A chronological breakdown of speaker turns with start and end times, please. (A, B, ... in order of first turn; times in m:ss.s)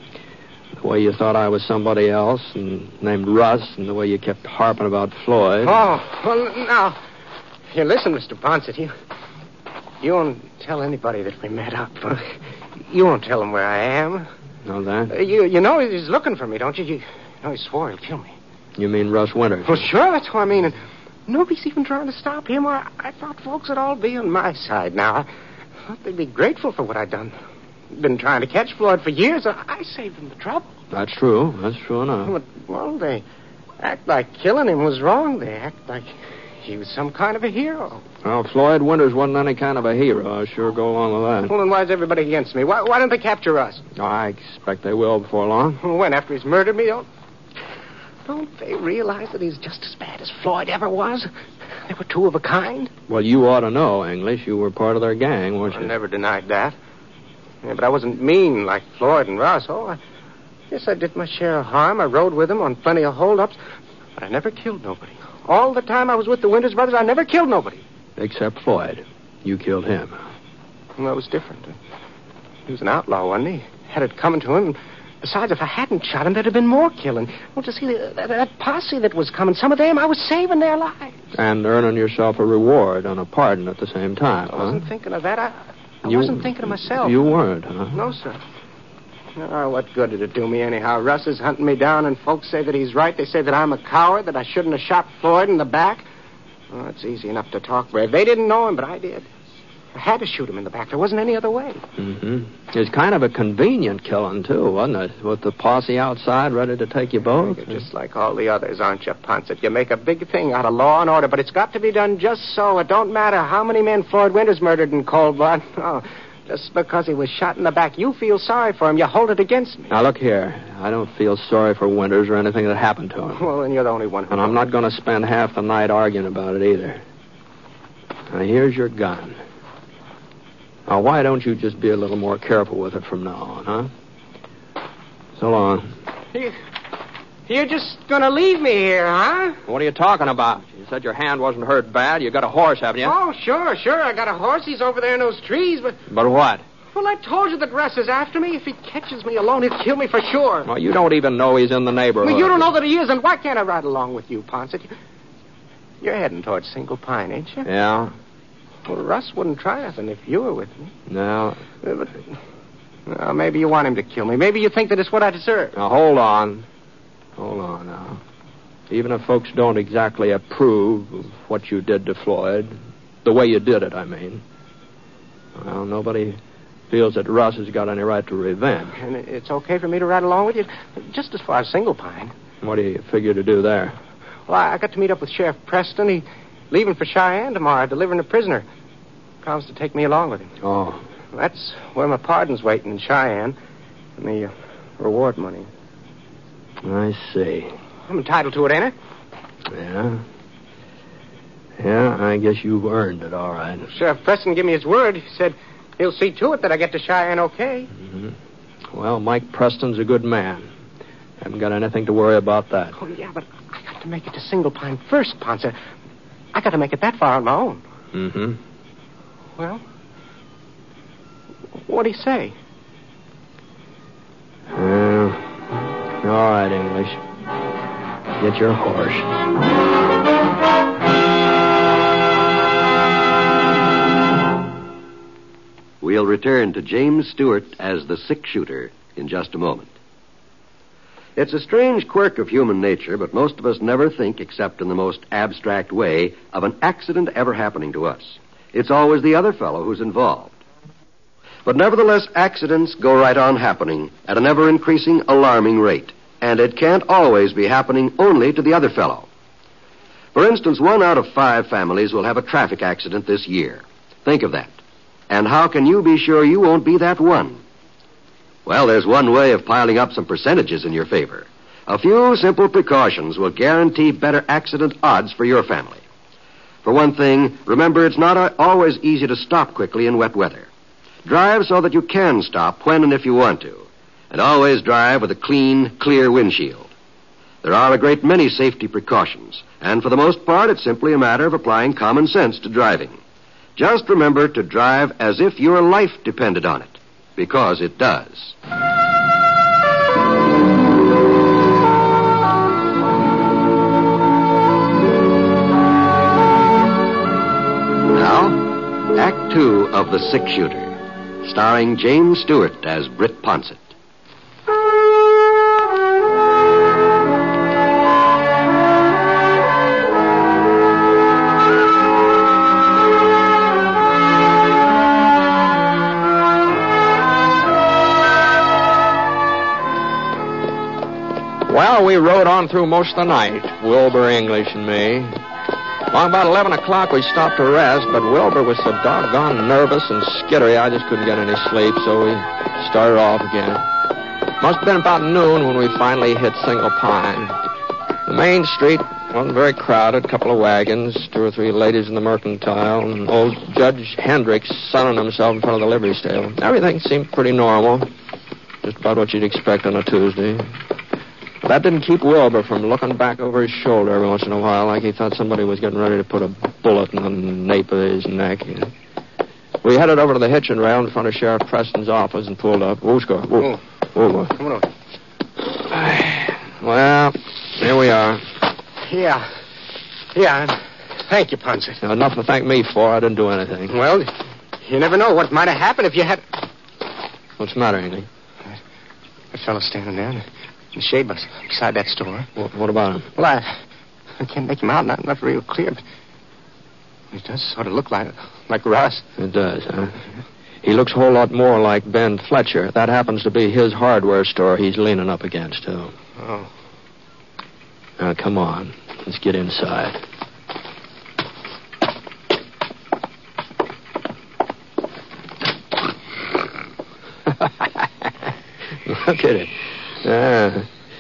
0:00.8-0:05.8 A
0:05.6-0:07.0 B
0:07.7-0:08.9 B
0:10.0-0:14.3 B
0:14.6-0:15.1 A
0:15.1-0:18.3 B
0:18.8-0:19.8 A
0:19.6-0:25.3 B
0:25.9-0:27.3 B
0:27.9-0:30.7 B
0:30.9-0:32.3 A
0:32.2-0:33.2 B
0:33.8-0:38.0 B
0:38.2-0:41.5 A
0:41.5-0:43.8 B
0:44.0-0:45.8 A
0:45.8-0:47.1 B
0:48.3-0:51.3 B
0:51.8-0:52.9 B
0:53.1-0:55.9 A
0:55.7-0:56.7 B
0:57.6-1:00.0 B
1:00.7-1:03.6 B
1:04.2-1:07.8 B
1:08.2-1:10.1 A
1:11.0-1:11.8 B
1:12.7-1:21.2 B
1:21.3-1:24.8 A
1:24.5-1:27.2 B
1:26.1-1:28.0 A
1:27.9-1:28.4 B
1:29.4-1:36.0 B
1:36.7-1:39.3 B
1:39.9-1:41.8 B
1:42.0-1:47.8 A
1:47.4-1:59.9 B
1:59.9-2:03.5 A
2:03.4-2:04.6 B
2:04.3-2:07.0 A
2:08.3-2:09.4 A
2:10.8-2:13.9 A
2:15.4-2:15.9 A
2:17.5-2:19.6 B
2:19.7-2:23.1 A
2:23.0-2:26.0 B
2:26.1-2:26.6 A
2:26.9-2:30.7 B
2:30.6-2:32.7 A
2:32.2-2:34.9 B
2:36.0-2:37.7 B
2:37.6-2:38.1 A
2:38.9-2:40.9 B
2:41.1-2:41.6 A
2:41.8-2:42.1 B
2:43.1-2:45.8 B
2:45.7-2:46.6 A
2:47.4-2:48.2 A
2:48.9-2:54.4 A
2:55.5-2:56.4 A
2:56.9-2:59.0 A
2:59.0-3:02.3 B
3:02.6-3:04.0 A
3:04.5-3:08.6 B
3:09.4-3:10.6 B
3:10.6-3:11.0 A
3:11.3-3:13.6 B
3:14.2-3:15.7 B
3:16.8-3:17.7 A
3:18.1-3:18.9 B
3:19.7-3:20.2 A
3:21.8-3:23.9 A
3:23.9-3:27.9 B
3:28.0-3:28.3 A
3:28.9-3:30.7 A
3:31.4-3:33.0 A
3:33.0-3:35.8 B
3:36.5-3:37.8 B
3:38.1-3:38.6 A
3:39.6-3:39.8 B
3:41.8-3:42.5 B
3:44.7-3:47.2 A
3:48.4-3:49.3 A
3:56.0-3:59.9 C
4:01.4-4:10.5 C
4:11.6-4:19.3 C
4:20.3-4:24.8 C
4:25.3-4:27.6 C
4:28.6-4:36.0 C
4:36.8-4:40.7 C
4:41.2-4:46.9 C
4:47.6-4:53.2 C
4:53.8-4:58.5 C
5:08.0-5:13.9 C
5:31.6-5:35.4 A
5:36.1-5:43.8 A
5:44.6-5:47.6 A
5:48.2-5:58.1 A
5:58.8-6:00.8 A
6:01.6-6:08.9 A
6:09.8-6:14.6 A
6:14.6-6:14.9 B
6:15.7-6:18.5 A
6:19.0-6:19.5 B
6:20.3-6:22.0 B
6:22.0-6:24.0 A
6:23.9-6:24.3 B
6:24.8-6:26.4 B
6:27.6-6:28.3 A
6:29.5-6:32.5 B
6:32.6-6:33.3 A
6:33.4-6:33.8 B
6:34.4-6:36.0 B
6:37.3-6:39.2 B
6:39.4-6:40.2 A
6:40.8-6:46.1 A
6:46.4-6:46.7 B
6:48.2-6:50.2 A
6:57.6-6:58.0 A
6:59.0-7:00.9 A